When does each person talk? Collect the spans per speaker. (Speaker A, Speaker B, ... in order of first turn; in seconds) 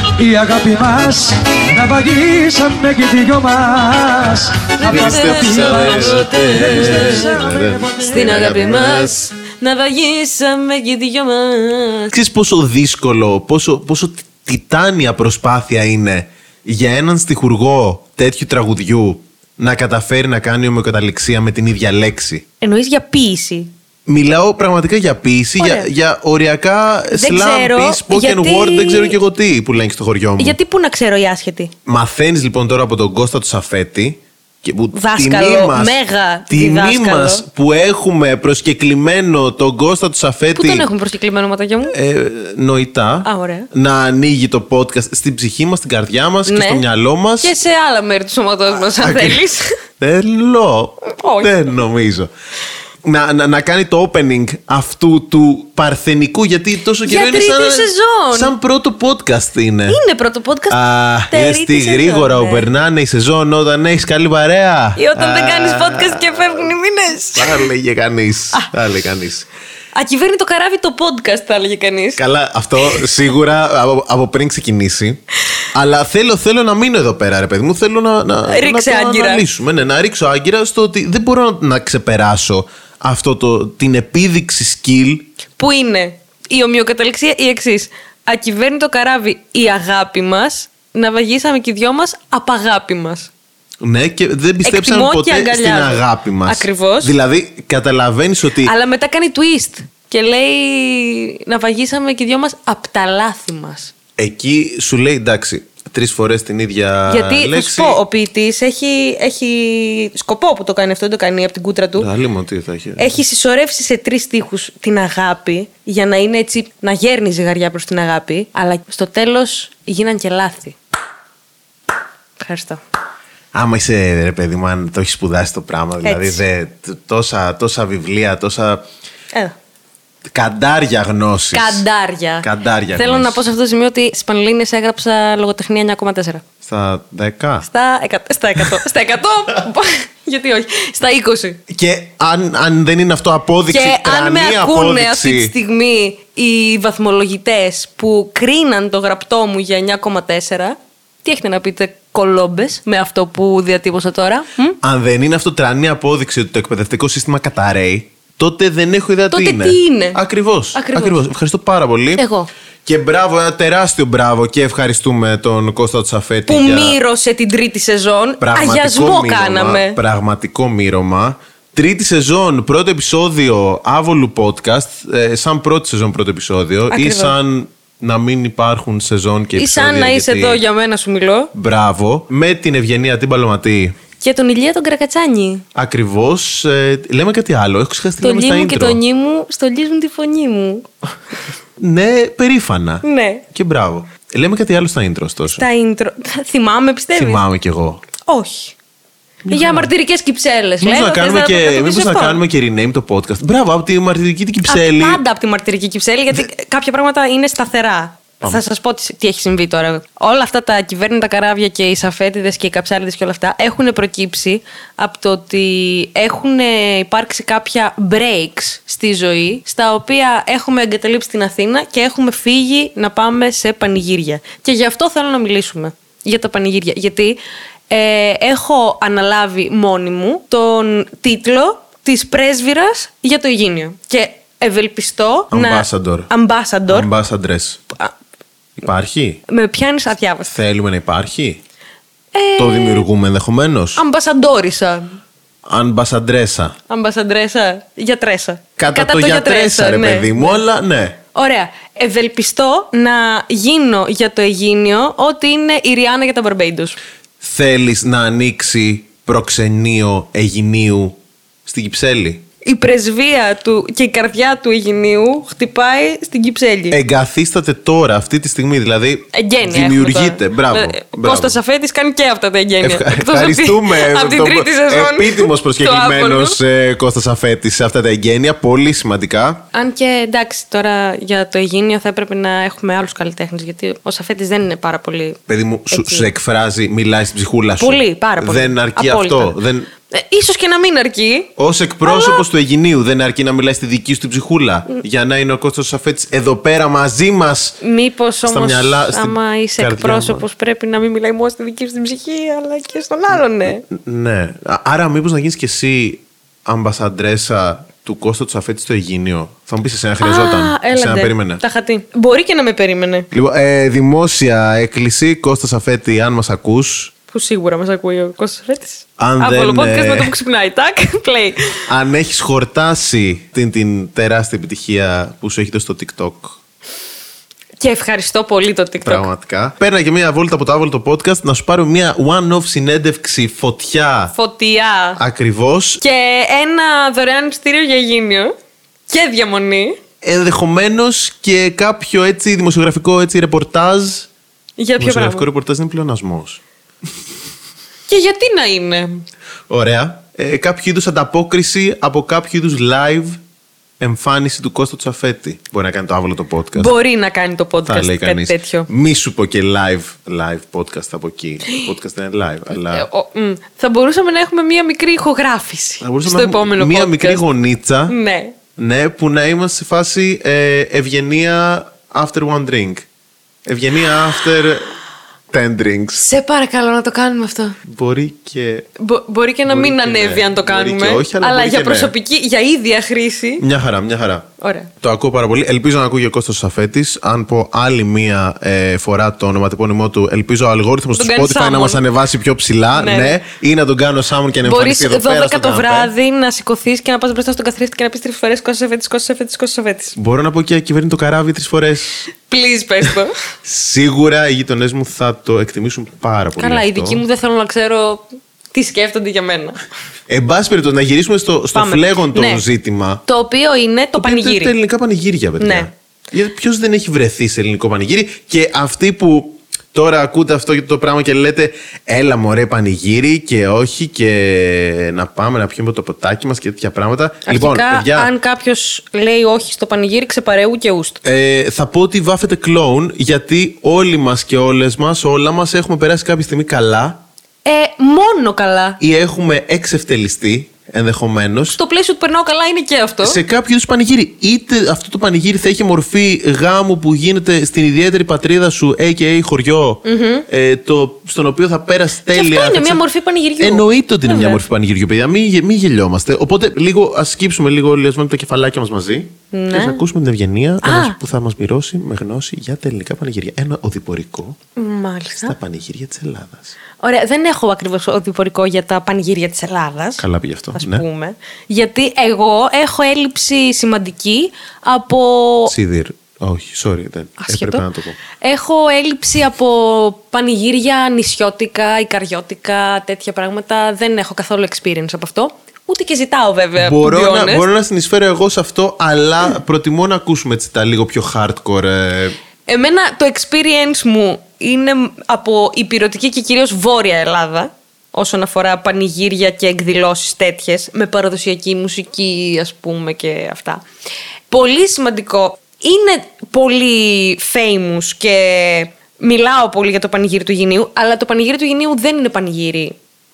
Speaker A: 0.2-8.5
Speaker B: 4.8-7.4, 8.0-12.1, 22.6-23.7, 25.6-25.9, 27.1-29.2, 30.4-31.7, 34.9-37.5, 40.5-42.0, 43.2-43.7, 46.5-46.9, 47.4-49.7, 51.0-51.6, 57.1-58.5, 59.9-62.7, 65.0-67.7, 69.9-72.2, 78.5-79.4, 85.6-93.3, 94.6-97.2, 98.6-103.9, 107.1-112.1, 113.0-120.8, 122.4-122.8, 126.0-126.4, 131.5-136.4, 137.6-141.6, 143.7-154.8, 159.3-160.2, 160.7-161.2, 162.2-162.5, 166.5-170.0, 176.9-177.3, 179.6-181.5, 184.2-185.7, 188.2-190.9, 193.0-193.4, 195.6-197.4, 198.2-198.8, 199.5-202.4, 204.7-227.4, 227.9-237.1, 239.5-240.5, 242.3-243.1, 244.0-245.2, 246.9-250.6, 251.3-257.0, 262.6-267.0, 269.3-276.6, 279.7-286.3, 287.8-291.5, 292.0-292.4, 297.8-303.9, 310.2-313.3, 317.3-321.8, 327.8-329.3, 334.3-335.2, 336.0-338.6, 339.1-340.0, 344.8-345.5, 348.1-349.2, 356.8-358.9, 362.7-367.4, 368.1-368.6, 376.2-377.8, 379.0-383.6, 384.6-384.9, 391.1-392.0, 392.9-393.4, 394.6-400.2, 402.4-403.3, 406.6-409.8, 411.7-412.6, 413.3-414.7, 415.6-415.9, 427.5-431.2, 437.6-439.0, 441.7-443.4, 450.1-450.5, 452.3-454.6, 459.5-460.0, 460.8-461.2, 464.8-465.6, 467.0-470.2, 470.8-475.7, 477.4-477.8, 478.4-487.6, 492.7-503.8, 504.5-513.0
Speaker C: 4.9-9.2, 12.1-22.4, 24.1-30.6, 31.9-36.0, 36.5-40.9, 41.9-47.6, 48.8-49.4, 50.0-52.3, 53.0-60.0, 60.7-66.7, 67.3-69.5, 72.2-75.2, 75.7-85.3, 93.8-98.7, 104.2-108.0, 112.0-113.2, 123.5-128.8, 130.3-131.8, 132.4-133.4, 136.6-137.7, 141.7-145.5, 154.8-162.2, 162.8-167.0, 168.4-180.6, 181.5-184.0, 185.8-189.0, 191.8-195.7, 197.2-198.0, 199.4-199.9, 200.8-205.2, 235.5-236.3, 236.9-237.8, 238.8-239.4, 240.4-241.6, 242.6-244.0, 245.7-246.8, 248.8-251.2, 257.4-262.4, 266.9-271.6, 272.8-279.6, 285.5-289.9, 291.6-297.8, 298.4-300.4, 303.7-311.6, 313.3-317.1, 319.2-320.3, 321.9-326.6, 329.0-334.3, 335.2-336.0, 340.2-344.3, 345.0-346.6, 349.7-353.4, 354.0-356.9, 357.9-363.1, 366.0-368.1, 368.8-373.1, 373.7-374.9, 375.5-376.2, 377.9-378.9, 379.7-382.1, 383.6-384.5, 385.0-396.1, 400.2-402.3, 403.6-407.2, 410.3-413.2, 414.2-428.3, 431.2-437.2, 439.0-441.8, 443.2-453.0, 453.6-464.6, 465.4-466.8, 470.2-471.1, 475.7-478.2, 486.8-492.4